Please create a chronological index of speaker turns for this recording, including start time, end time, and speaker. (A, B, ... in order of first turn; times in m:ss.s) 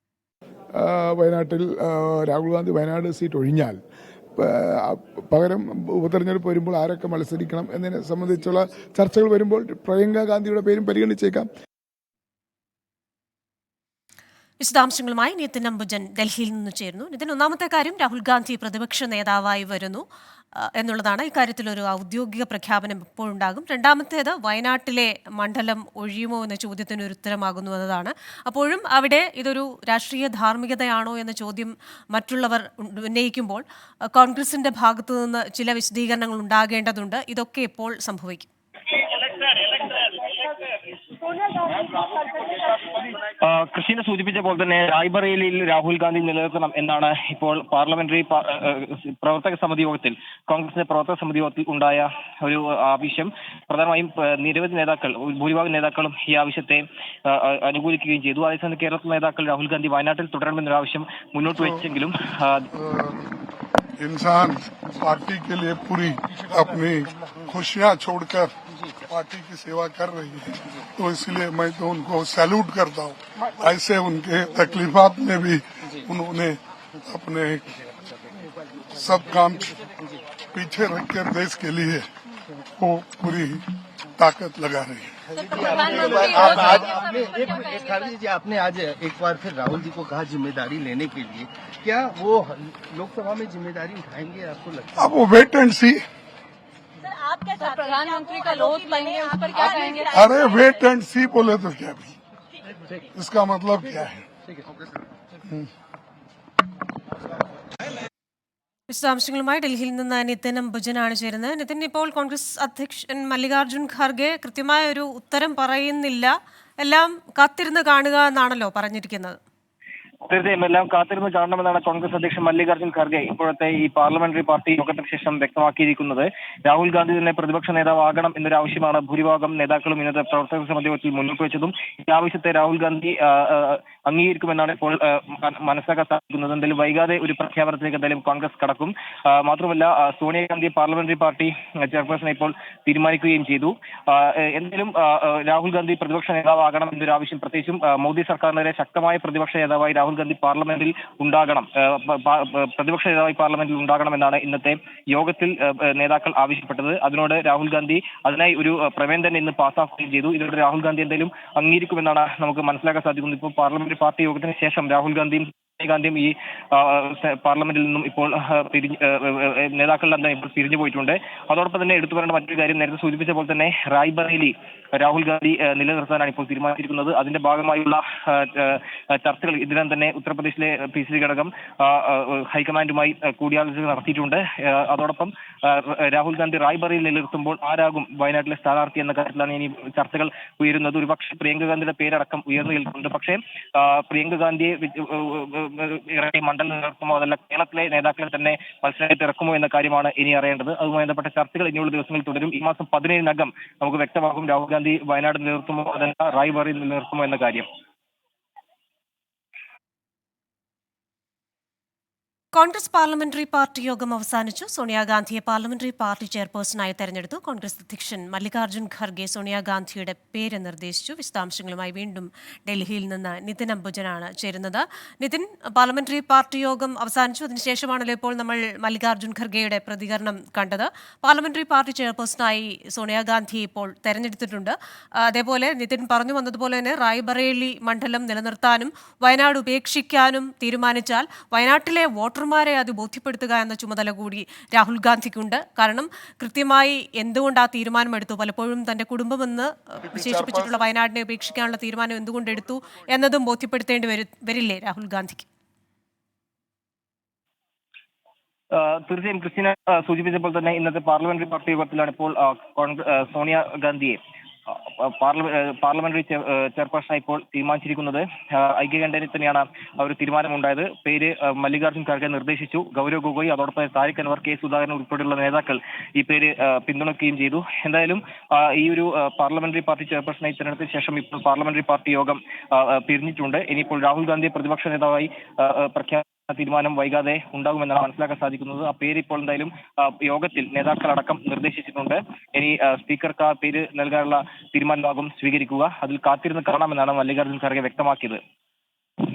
0:00.7-0:03.8 A
0:04.4-0:11.5 A
0:14.6-0:20.0 B
0:20.6-0:38.5 B
0:39.0-0:40.5 C
0:41.3-1:02.7 C
1:01.5-1:01.8 D
1:02.7-1:03.3 D
1:04.0-1:17.8 D
1:18.9-1:19.8 D
1:20.5-1:22.1 D
1:22.8-1:25.3 D
1:25.3-1:34.9 E
1:25.4-1:28.0 F
1:25.9-1:26.7 D
1:35.0-1:36.0 D
1:37.1-1:40.1 F
1:40.0-1:42.2 D
1:43.1-1:44.3 D
1:48.9-1:59.4 B
2:00.3-3:27.7 C
3:32.5-4:15.5 B
4:18.7-4:58.4 C